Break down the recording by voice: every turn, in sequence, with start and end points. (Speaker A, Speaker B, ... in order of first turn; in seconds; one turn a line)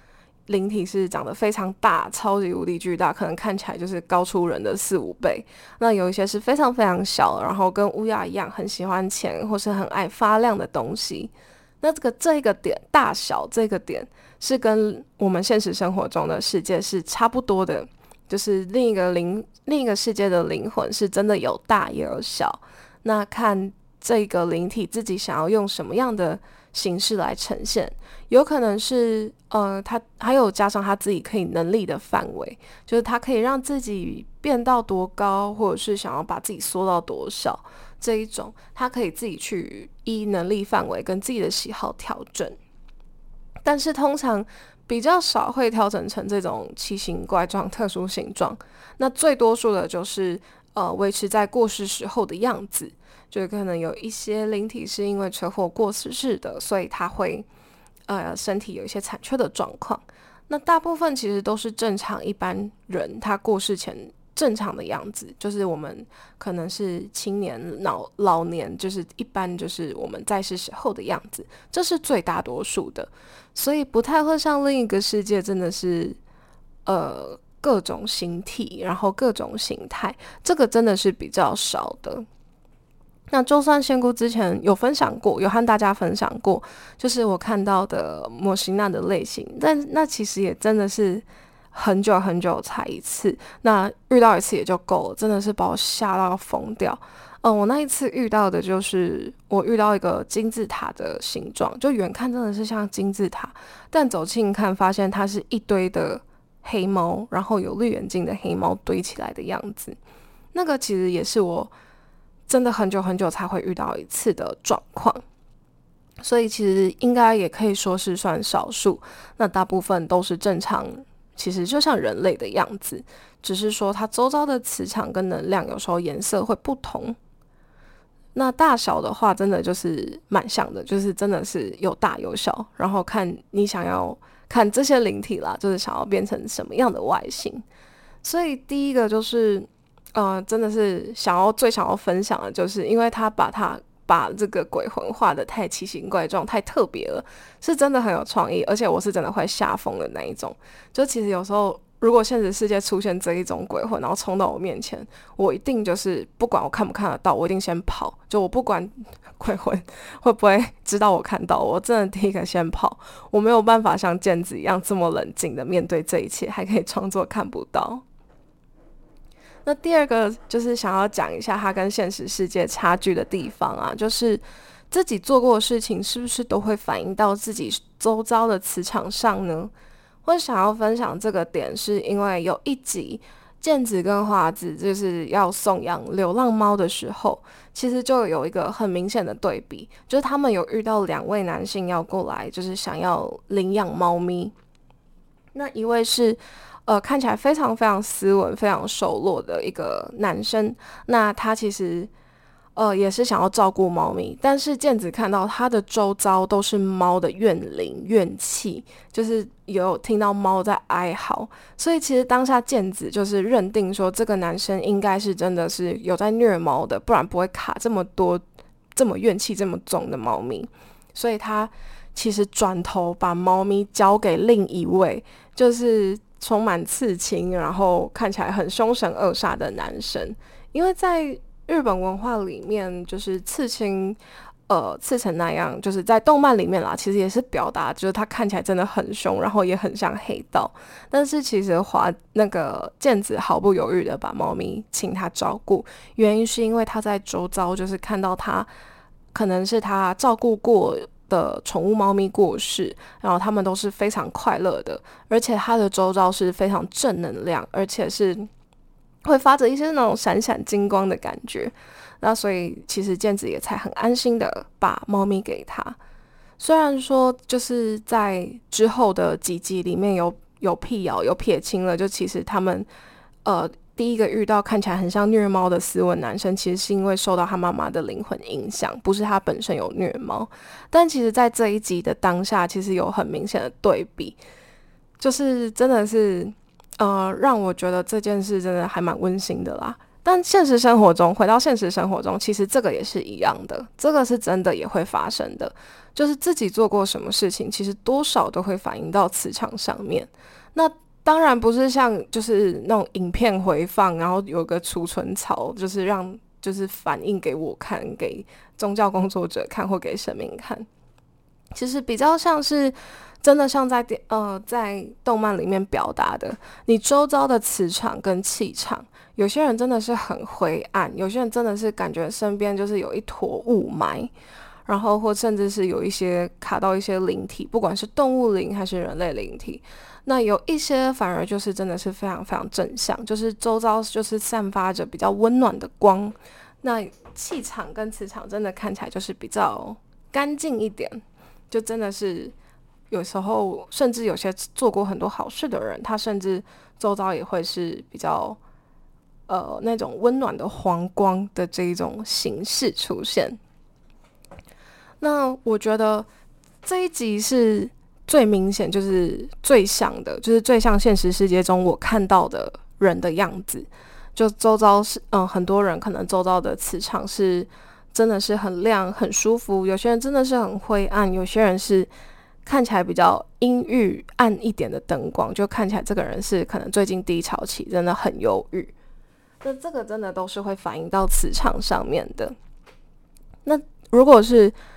Speaker A: 0.5-42.6
Speaker A: 43.6-57.5
Speaker A: 58.1-76.2
Speaker A: 76.8-82.2
Speaker A: 83.3-110.0
Speaker A: 110.5-111.7
Speaker A: 112.5-115.2
Speaker A: 116.2-127.2
Speaker A: 128.3-137.6
Speaker A: 138.2-168.0
Speaker A: 169.6-179.7
Speaker A: 180.2-194.5
Speaker A: 195.5-202.1
Speaker A: 202.8-218.4
Speaker A: 218.9-234.2
Speaker A: 234.7-248.7
Speaker A: 249.3-258.5
Speaker A: 259.2-266.0
Speaker A: 266.6-272.9
Speaker A: 273.4-284.4
Speaker A: 285.2-310.9
Speaker A: 311.7-324.3
Speaker A: 324.9-342.5
Speaker A: 343.1-348.6
Speaker A: 349.5-353.6
Speaker A: 355.2-356.3
Speaker A: 356.8-372.1
Speaker A: 372.6-378.9
Speaker A: 379.6-382.6
Speaker A: 383.6-384.7